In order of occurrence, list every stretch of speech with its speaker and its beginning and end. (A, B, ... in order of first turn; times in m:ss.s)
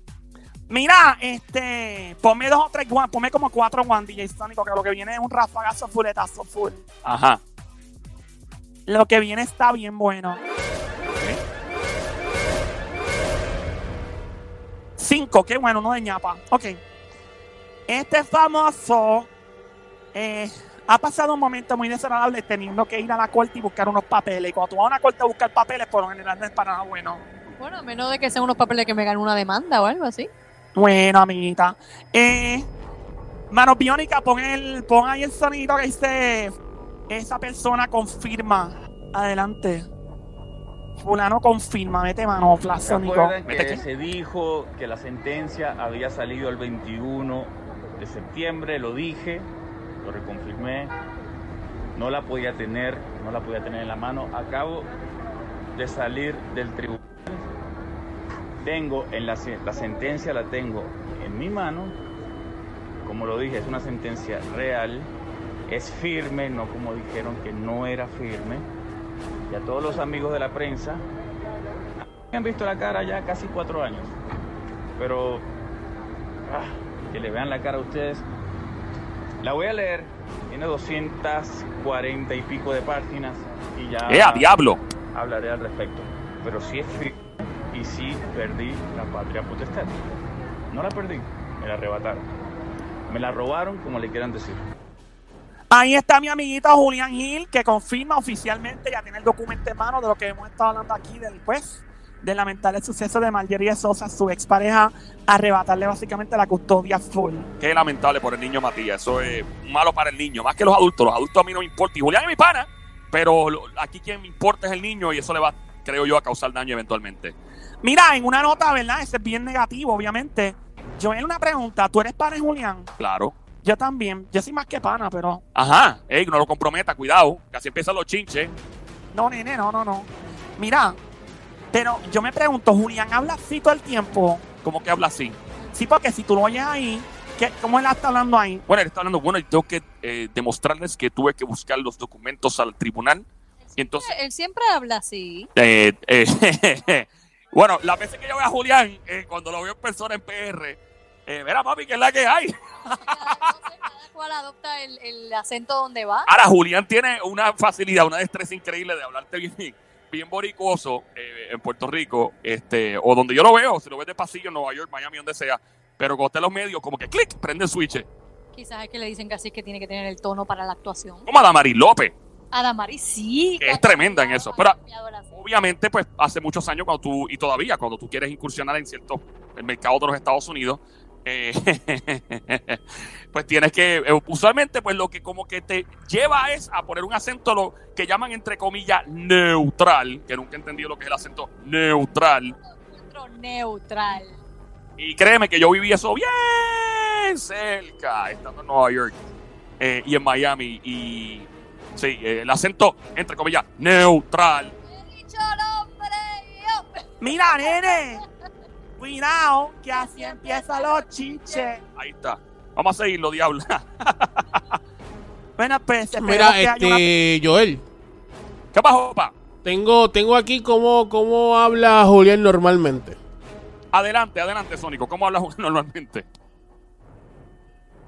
0:00.7-0:06.8 A
0:07.0-0:07.4 B
0:08.9-0:10.4 A
0:11.1-0:11.4 B
0:15.0-0:16.8 A
0:17.9-0:19.3 A
0:20.1-0:27.2 A
0:27.5-0:30.3 C
0:30.7-0:32.7 A
0:33.5-0:36.5 A
0:37.1-0:39.9 A
0:41.0-0:43.4 A
0:42.8-0:49.5 D
0:43.5-0:43.8 B
0:50.0-0:50.9 D
0:51.9-0:54.9 D
0:55.8-0:57.4 D
0:58.6-1:02.0 D
1:03.0-1:05.1 D
1:05.7-1:08.6 D
1:09.5-1:11.0 D
1:12.3-1:14.1 D
1:15.0-1:15.5 D
1:16.5-1:18.2 D
1:19.4-1:24.5 D
1:24.1-1:24.8 B
1:25.1-1:30.0 D
1:30.7-1:32.2 D
1:33.1-1:34.6 D
1:35.7-1:47.5 A
1:47.6-1:57.3 B
1:57.8-2:02.9 A
2:03.0-2:03.3 B
2:03.6-2:05.4 A
2:05.6-2:08.5 B
2:09.1-2:11.0 A
2:11.7-2:14.4 A
2:14.6-2:15.4 B
2:15.7-2:18.6 A
2:18.7-2:23.2 B
2:23.6-2:25.5 C
2:23.8-2:24.1 B
2:25.6-2:33.5 B
2:32.8-2:36.3 C
2:36.3-2:48.1 B
2:48.5-2:51.3 C
2:51.2-2:52.1 B
2:52.5-2:55.3 C
2:53.6-2:54.8 B
2:55.3-3:02.8 B
3:03.3-3:12.5 B
3:12.6-3:14.4 C
3:15.0-3:19.2 B
3:19.8-3:24.7 B
3:24.8-3:28.2 C
3:27.2-3:28.2 A
3:29.0-3:31.8 A
3:29.9-3:31.8 C
3:32.0-3:34.6 B
3:35.6-3:37.0 A
3:36.1-3:37.8 E
3:38.7-3:39.3 B
3:39.6-3:43.2 E
3:43.9-3:46.2 B